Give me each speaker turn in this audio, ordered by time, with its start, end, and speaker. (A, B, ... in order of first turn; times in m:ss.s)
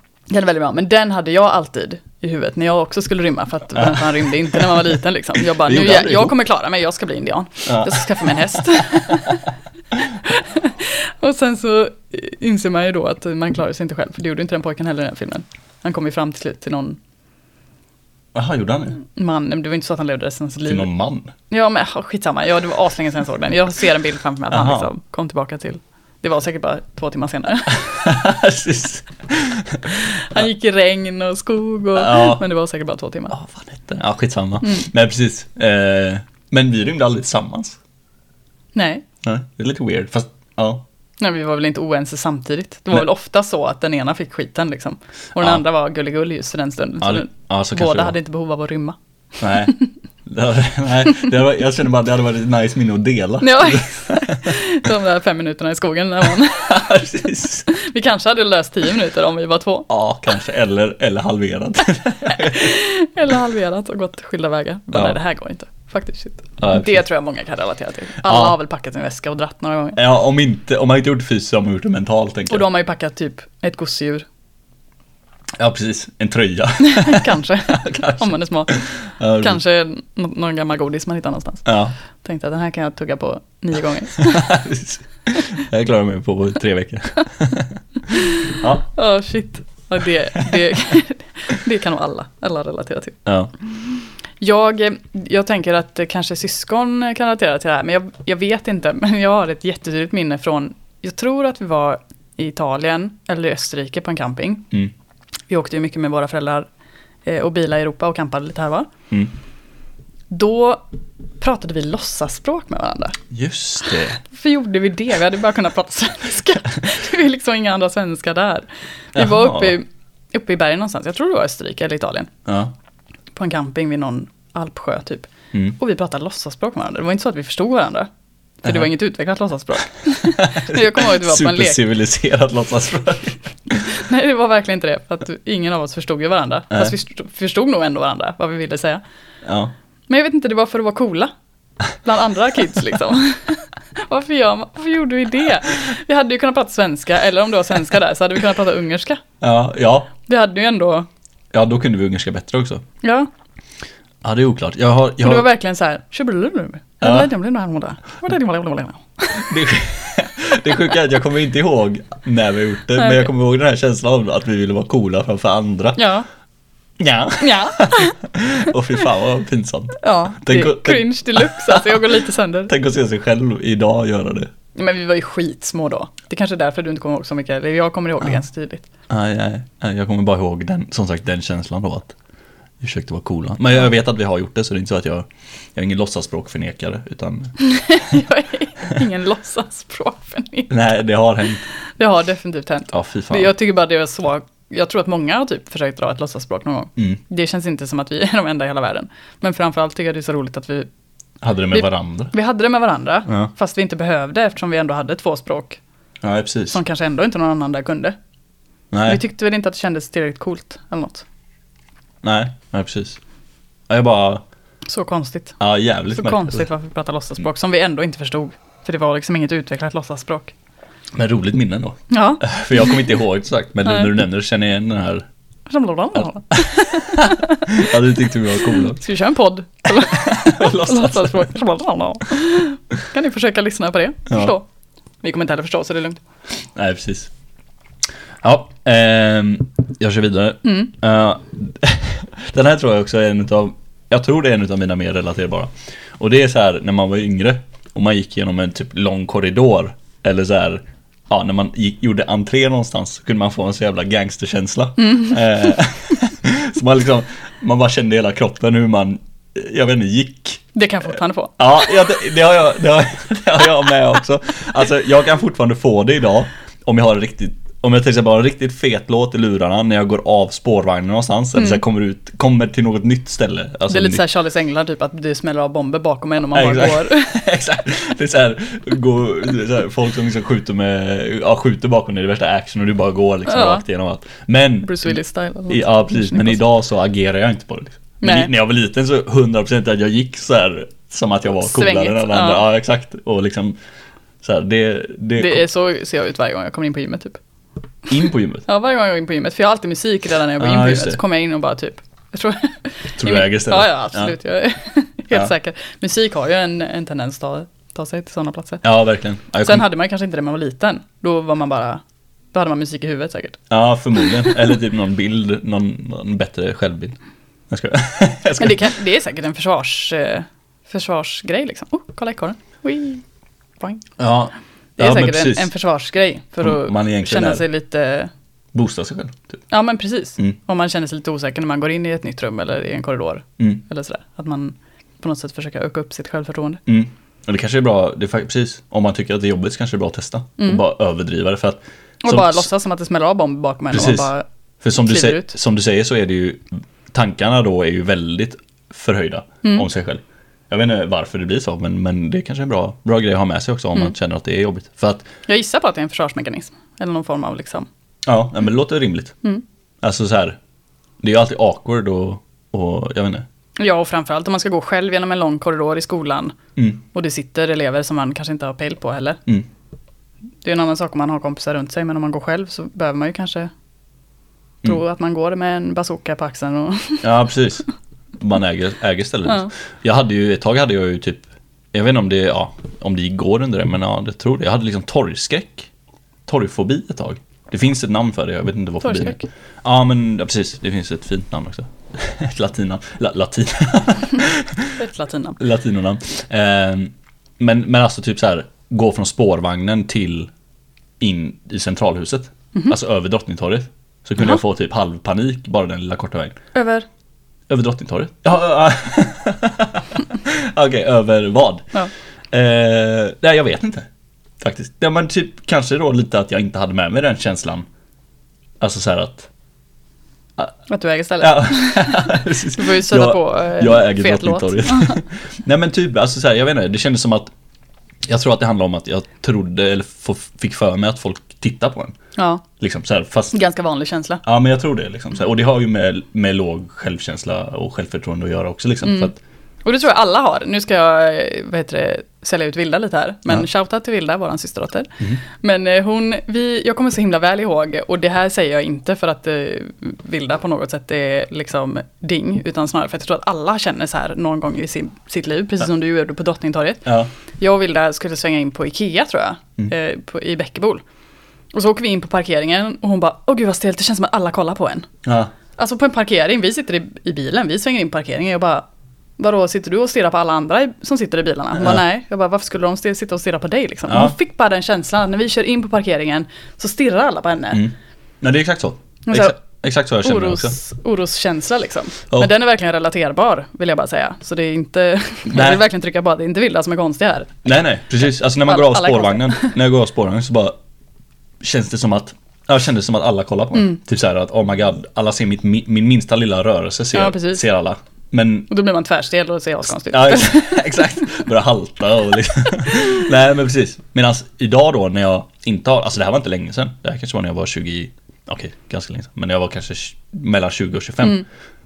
0:00.3-0:09.5 A
0:03.8-0:06.4 B
0:07.7-0:08.6 B
0:10.2-0:17.0 A
0:18.3-0:19.0 B
0:19.2-0:20.9 A
0:20.6-0:21.3 B
0:21.5-0:27.8 A
0:24.5-0:24.9 B
0:27.7-0:30.5 B
0:30.3-0:33.4 A
0:32.0-0:32.4 B
0:33.3-0:37.8 B
0:38.8-0:39.0 A
0:39.2-0:40.8 B
0:41.2-0:49.0 A
0:47.0-0:48.2 B
0:49.4-0:54.6 B
0:53.4-0:57.0 A
0:56.4-0:57.7 B
0:57.7-0:59.9 A
0:59.9-1:02.8 B
1:02.3-1:10.0 A
1:04.9-1:05.2 B
1:06.6-1:07.0 B
1:08.2-1:08.6 B
1:10.0-1:12.6 B
1:12.5-1:14.2 A
1:15.6-1:19.6 B
1:16.8-1:18.8 A
1:19.4-1:24.6 A
1:21.7-1:22.0 B
1:24.2-1:28.9 B
1:28.1-1:33.3 A
1:33.3-1:33.5 B
1:34.4-1:44.7 A
1:45.5-1:46.7 A
1:47.3-1:48.9 A
1:50.3-1:50.8 A
1:51.4-1:53.2 A
1:53.3-1:54.2 B
1:54.2-2:02.3 A
1:59.2-1:59.8 B
2:02.5-2:02.7 B
2:03.4-2:08.1 A
2:08.6-2:11.8 A
2:10.2-2:13.8 B
2:13.9-2:19.0 A
2:19.4-2:19.7 B
2:20.1-2:21.3 A
2:22.0-2:29.2 A
2:29.4-2:30.1 B
2:30.2-2:31.1 A
2:31.5-2:32.8 B
2:33.0-2:33.3 A
2:34.2-2:35.5 B
2:35.2-2:39.6 A
2:37.0-2:37.3 B
2:39.4-2:46.0 B
2:43.0-2:43.3 A
2:46.0-2:46.3 A
2:47.0-2:52.2 B
2:47.4-2:48.2 A
2:50.0-2:52.7 A
2:52.7-2:54.5 B
2:54.8-2:58.9 A
2:59.1-3:02.1 B
3:02.8-3:07.6 B
3:07.6-3:10.7 A
3:10.7-3:11.6 B
3:12.0-3:20.9 A
3:12.9-3:13.5 B
3:21.4-3:22.3 B
3:21.7-3:25.8 A
3:26.2-3:26.8 B
3:26.7-3:28.2 A
3:28.9-3:29.2 B
3:29.0-3:31.2 A
3:32.2-3:33.2 B
3:33.9-3:34.4 B
3:34.9-3:35.6 A
3:35.6-3:36.6 B
3:36.1-3:40.5 A
3:41.1-3:45.3 B
3:42.1-3:42.9 A
3:45.7-3:48.0 A
3:46.8-3:49.0 B
3:48.6-3:54.6 A
3:50.0-3:51.5 B
3:54.3-3:54.5 B
3:55.2-3:56.2 A
3:56.8-3:57.3 B
3:58.4-4:20.6 B
4:00.6-4:00.9 A
4:15.0-4:15.4 A
4:20.7-4:21.9 A
4:21.6-4:34.2 B
4:31.6-4:31.8 A
4:33.9-4:37.4 A
4:36.5-4:45.2 B
4:43.5-4:43.8 A
4:44.8-4:46.6 A
4:45.7-4:53.8 B
4:48.2-4:48.5 A
4:51.6-4:52.6 A
4:54.4-4:55.6 B
4:55.4-4:57.4 A
4:58.1-4:58.6 B
4:58.7-5:08.8 A
5:00.6-5:01.2 B
5:03.2-5:04.3 B
5:08.8-5:09.9 B
5:09.6-5:12.0 A
5:12.5-5:13.6 A
5:13.7-5:17.2 B
5:14.2-5:14.6 A
5:17.7-5:18.9 B
5:18.6-5:23.2 A
5:23.8-5:24.1 A
5:24.2-5:25.7 B
5:25.0-5:28.3 A
5:26.6-5:27.6 B
5:28.7-5:29.6 B
5:29.7-5:36.8 A
5:36.9-5:42.7 B
5:42.2-5:44.4 A
5:43.9-5:55.3 B
5:45.0-5:45.5 A
5:55.5-5:57.9 A
5:58.3-5:59.4 B
6:00.0-6:00.6 B
6:01.2-6:03.4 B
6:03.8-6:06.6 A
6:07.1-6:09.4 A
6:10.6-6:13.7 A
6:14.8-6:17.3 A
6:17.2-6:17.8 B
6:18.4-6:25.9 B
6:26.5-6:35.0 B
6:29.0-6:29.4 A
6:35.0-6:35.6 A
6:35.6-6:40.5 B
6:41.2-6:46.6 B
6:46.7-6:47.1 A
6:47.7-6:51.9 B
6:52.5-6:54.1 B
6:54.6-6:57.9 B
6:58.8-6:59.5 B
7:00.9-7:05.2 A
7:01.4-7:07.5 B
7:08.3-7:12.2 B
7:12.4-7:12.6 A
7:12.8-7:13.6 B
7:13.5-7:14.4 A
7:14.4-7:19.4 B
7:19.0-7:19.3 A
7:19.8-7:41.0 A
7:41.7-7:45.1 A
7:45.2-7:45.5 B
7:45.8-7:48.8 A
7:49.4-7:57.8 A
7:51.8-7:52.0 B
7:54.1-7:54.4 B
7:57.7-8:00.8 B
7:59.3-7:59.6 A
8:00.2-8:07.6 A
8:05.5-8:05.8 B
8:07.6-8:10.8 B
8:08.6-8:09.7 A
8:11.6-8:18.7 B
8:17.1-8:17.6 A
8:18.7-8:20.8 A
8:20.1-8:31.4 B